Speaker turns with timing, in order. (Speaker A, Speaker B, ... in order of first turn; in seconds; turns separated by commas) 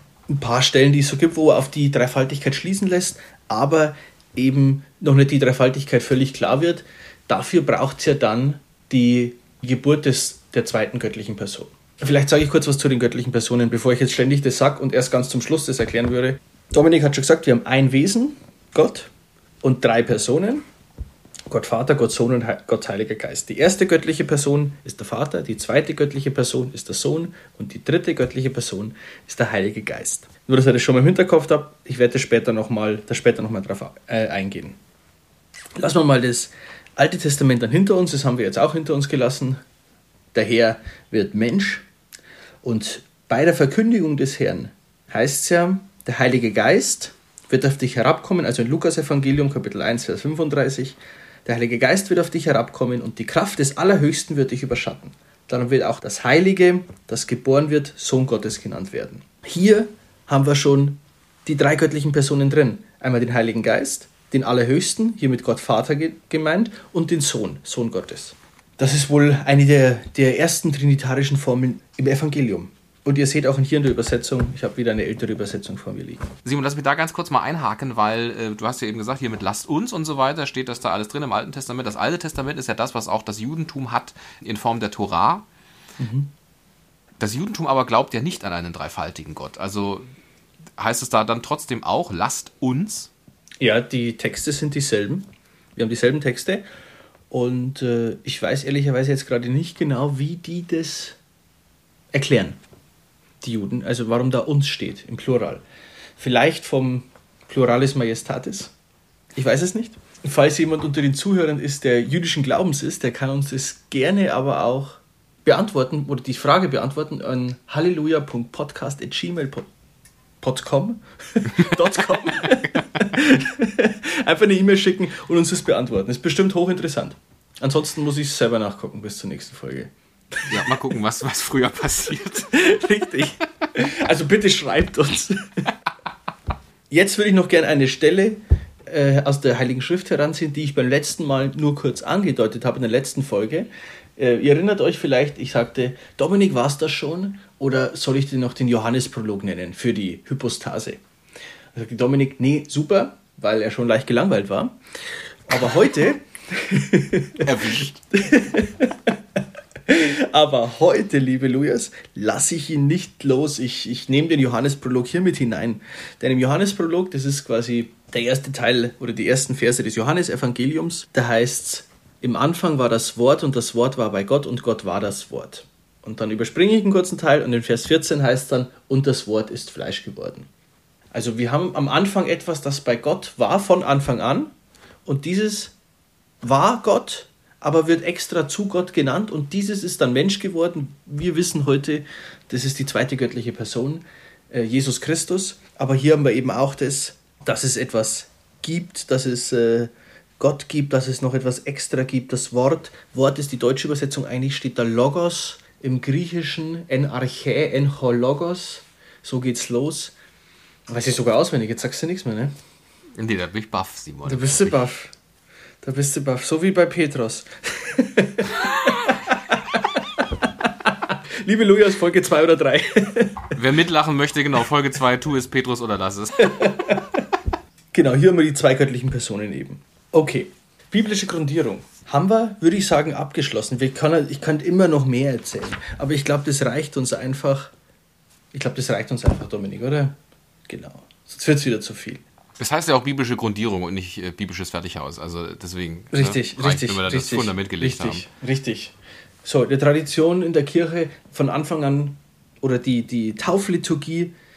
Speaker A: 0.3-19.1, Speaker A: 19.6-20.6, Speaker A: 21.5-34.8, Speaker A: 35.8-39.6, Speaker A: 40.3-41.9, Speaker A: 42.6-76.3, Speaker B: 76.5-85.5, Speaker A: 86.0-86.3, Speaker B: 87.2-90.1, Speaker B: 90.8-93.1, Speaker A: 93.6-96.7, Speaker A: 97.3-101.2, Speaker A: 102.1-102.6, Speaker A: 103.4-105.6, Speaker A: 106.2-108.7, Speaker A: 109.3-119.7, Speaker A: 120.4-130.8, Speaker B: 130.5-132.6, Speaker A: 132.5-135.7, Speaker A: 136.9-151.0, Speaker A: 151.7-180.5, Speaker B: 157.4-158.0, Speaker A: 181.1-184.5, Speaker A: 185.1-185.8, Speaker A: 186.4-210.1, Speaker A: 210.9-212.5, Speaker B: 213.2-214.8, Speaker A: 214.2-215.1, Speaker A: 215.8-223.6, Speaker B: 223.6-226.6, Speaker A: 226.4-227.3, Speaker A: 227.9-237.7, Speaker A: 238.5-240.2, Speaker A: 240.7-242.2, Speaker B: 242.6-248.3, Speaker A: 246.1-254.3